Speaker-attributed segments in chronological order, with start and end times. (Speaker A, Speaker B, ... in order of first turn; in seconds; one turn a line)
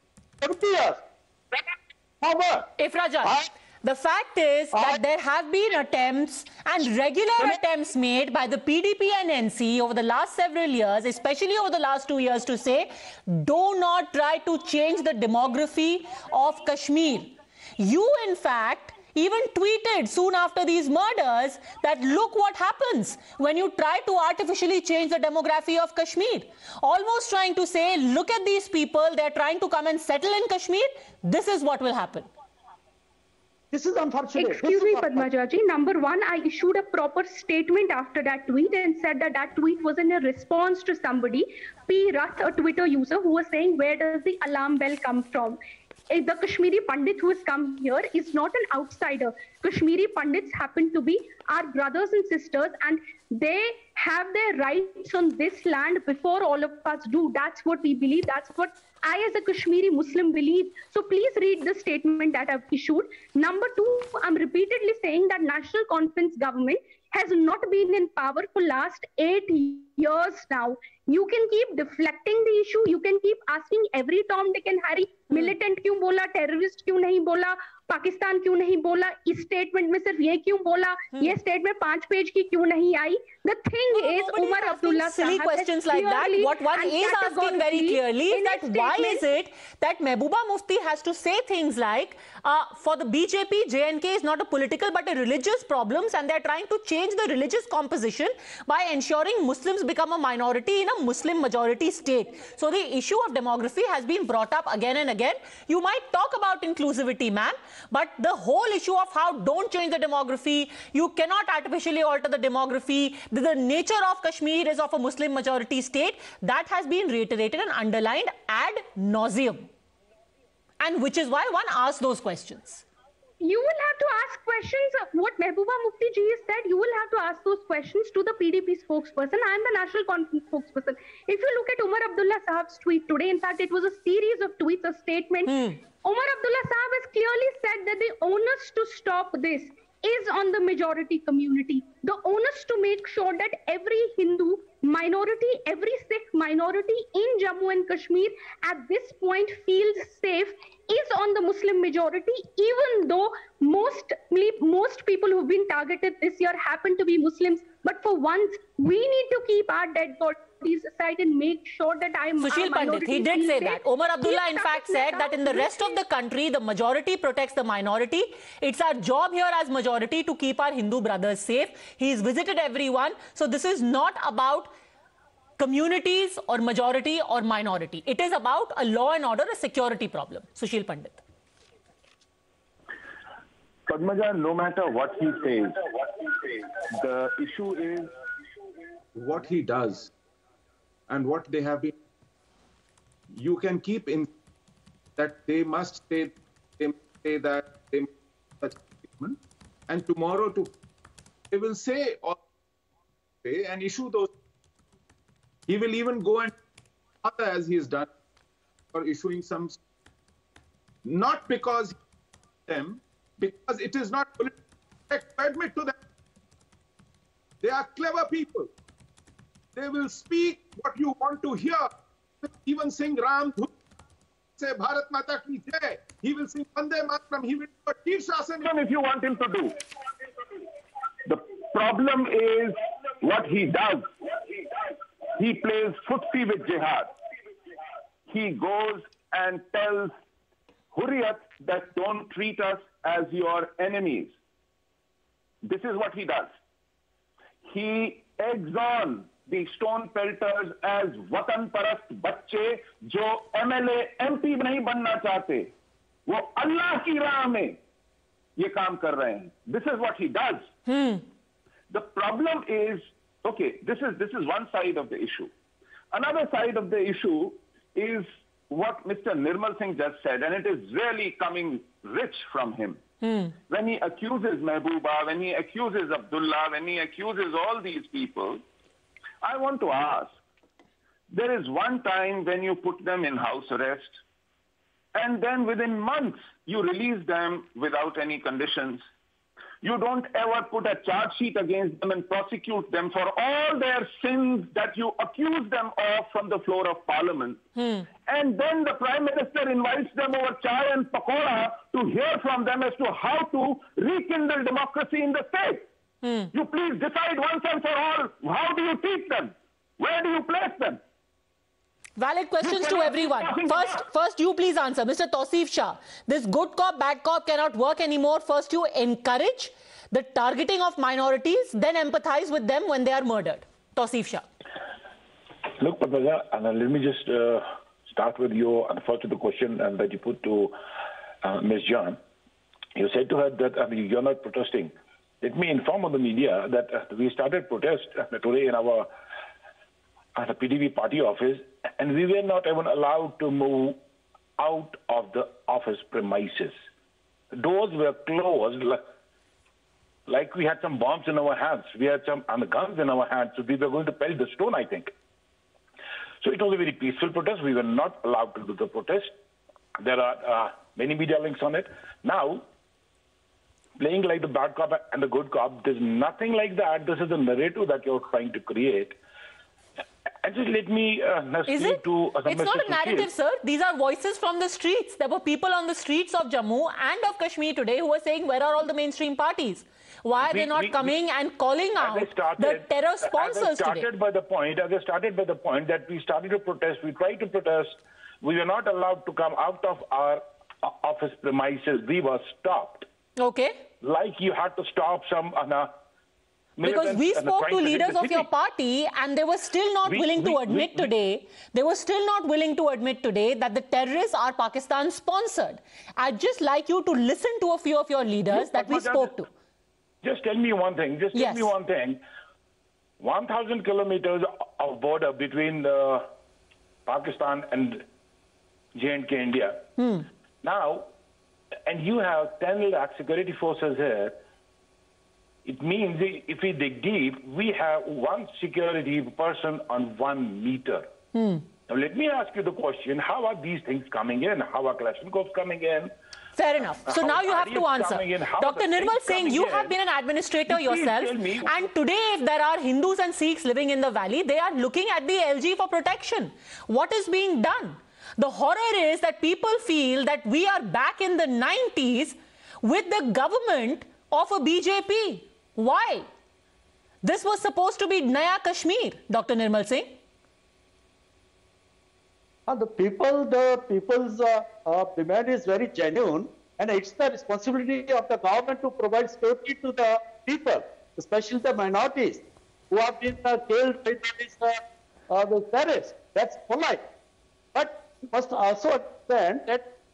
Speaker A: 0.4-2.7
Speaker B: 2.8-32.3
Speaker A: 3.2-3.5
Speaker A: 33.7-35.2
Speaker C: 34.4-45.6
Speaker C: 46.1-89.3
Speaker B: 81.1-81.4
Speaker B: 83.9-119.7
Speaker B: 120.8-122.8
Speaker C: 123.4-166.0
Speaker B: 135.4-135.8
Speaker B: 162.4-174.7
Speaker B: 175.6-181.2
Speaker D: 183.9-188.1
Speaker E: 189.2-190.1
Speaker E: 191.1-191.9
Speaker E: 193.3-194.3
Speaker E: 195.2-199.4
Speaker E: 199.9-200.7
Speaker E: 201.5-202.4
Speaker E: 203.4-204.3
Speaker E: 205.7-206.5
Speaker E: 207.2-208.1
Speaker E: 208.9-209.8
Speaker E: 211.0-211.9
Speaker E: 212.7-214.5
Speaker E: 215.1-215.9
Speaker E: 217.6-218.7
Speaker E: 219.7-221.9
Speaker E: 222.4-223.7
Speaker E: 224.6-228.7
Speaker D: 228.6-229.8
Speaker D: 231.2-234.1
Speaker D: 235.4-237.1
Speaker D: 238.3-240.1
Speaker D: 240.9-244.3
Speaker D: 245.6-246.5
Speaker D: 247.7-255.7
Speaker D: 256.3-257.8
Speaker D: 258.6-260.7
Speaker B: 260.9-261.2
Speaker D: 261.9-265.5
Speaker D: 266.1-273.0
Speaker B: 273.2-273.5
Speaker D: 273.7-278.6
Speaker D: 279.4-280.3
Speaker D: 281.3-284.2
Speaker D: 285.1-289.0
Speaker D: 289.8-297.6
Speaker B: 297.8-298.1
Speaker D: 298.2-305.9
Speaker B: 306.2-306.5
Speaker D: 306.5-311.0
Speaker B: 312.2-324.4
Speaker D: 312.6-314.0
Speaker F: 325.8-330.8
Speaker F: 331.4-332.2
Speaker F: 332.9-339.1
Speaker F: 340.4-344.0
Speaker F: 344.6-346.8
Speaker F: 347.6-349.0
Speaker F: 350.3-355.1
Speaker F: 356.4-359.3
Speaker F: 360.0-362.7
Speaker F: 364.0-369.2
Speaker F: 370.4-373.3
Speaker B: 371.7-384.1
Speaker F: 380.4-381.1
Speaker F: 382.0-393.1
Speaker B: 393.4-393.8
Speaker F: 394.0-395.9
Speaker F: 396.8-398.5
Speaker B: 396.8-409.5
Speaker F: 400.1-401.1
Speaker F: 408.5-409.4
Speaker F: 410.2-412.2
Speaker B: 411.3-411.7
Speaker F: 413.2-416.3
Speaker F: 417.1-418.0
Speaker F: 418.9-419.9
Speaker B: 420.0-420.3
Speaker F: 420.6-421.1
Speaker F: 421.9-424.4
Speaker F: 425.6-431.1
Speaker B: 431.3-431.6
Speaker F: 431.9-436.1
Speaker B: 436.6-456.3
Speaker F: 437.1-439.9
Speaker F: 440.7-441.9
Speaker B: 457.2-460.2
Speaker A: 462.7-477.0
Speaker A: 477.7-479.8